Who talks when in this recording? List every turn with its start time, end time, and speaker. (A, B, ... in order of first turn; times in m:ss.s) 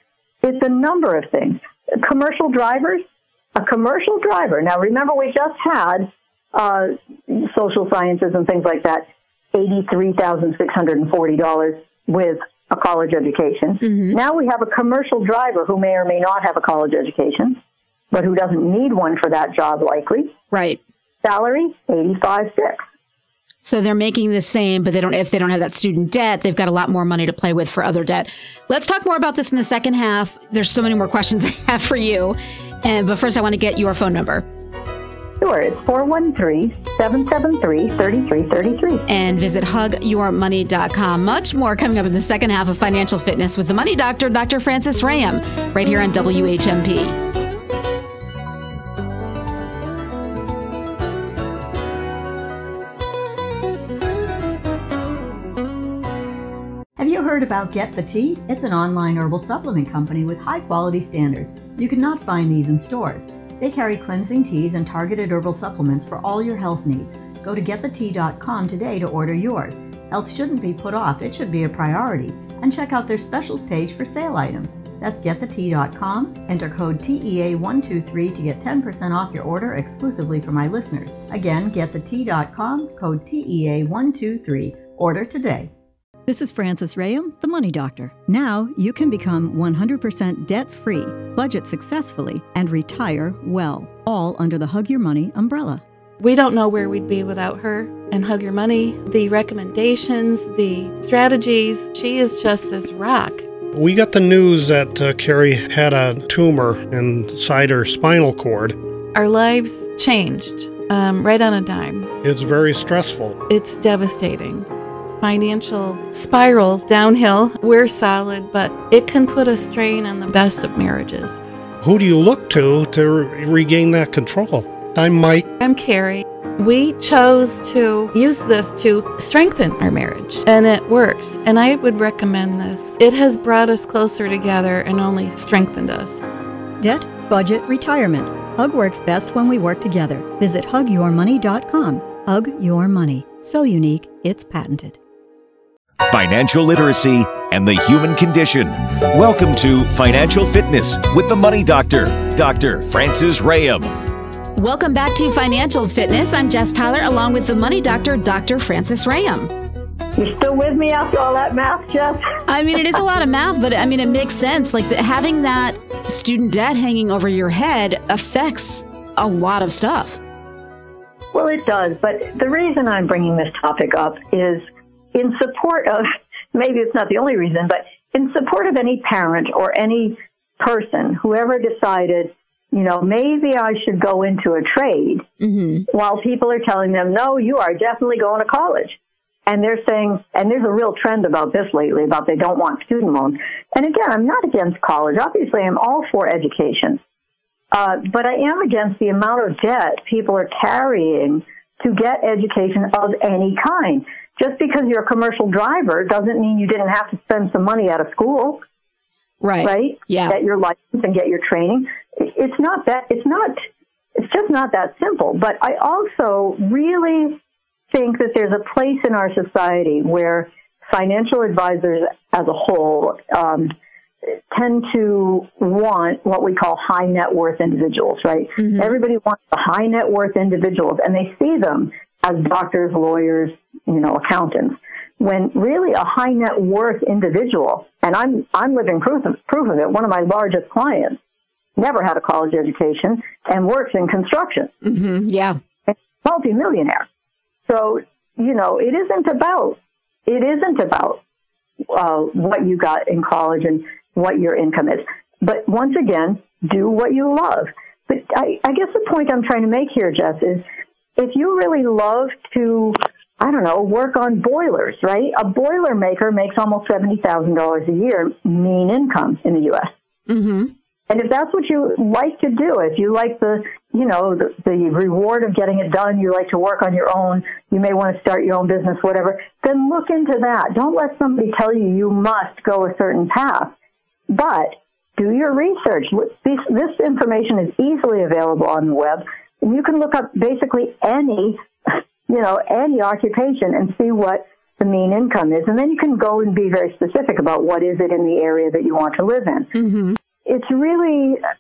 0:00.4-0:17.6 A
0:13.8-0:14.2 B
0:18.1-0:20.4 A
0:20.5-0:20.8 B
0:21.2-0:22.8 A
0:23.6-0:34.5 B
0:35.4-0:39.0 A
0:39.1-0:47.2 B
0:57.0-1:25.7 C
1:26.3-1:35.8 D
1:36.2-1:43.5 E
1:43.7-1:48.8 F
1:49.1-1:52.1 E
1:52.2-1:53.4 F
1:53.5-2:01.4 E
2:01.8-2:05.5 F
2:05.6-2:16.2 E
2:16.8-2:25.0 D
2:26.0-2:33.9 G
2:34.6-2:39.5 B
2:40.2-2:42.3 A
2:42.5-2:50.2 B
2:51.3-3:05.2 A
3:05.4-3:05.9 B
3:05.9-3:17.0 A
3:17.7-3:28.6 A
3:29.4-3:30.4 B
3:29.6-3:33.6 A
3:34.2-3:37.4 A
3:37.9-3:43.8 A
3:44.5-4:01.2 A
3:48.6-3:48.9 B
4:01.8-4:04.7 A
4:04.8-4:05.6 B
4:05.9-4:07.1 A
4:07.7-4:11.2 A
4:11.9-4:20.6 A
4:21.2-4:29.9 A
4:30.3-4:30.7 B
4:31.1-4:43.7 A
4:44.3-4:59.7 A
4:59.8-5:00.2 B
5:00.4-5:01.4 A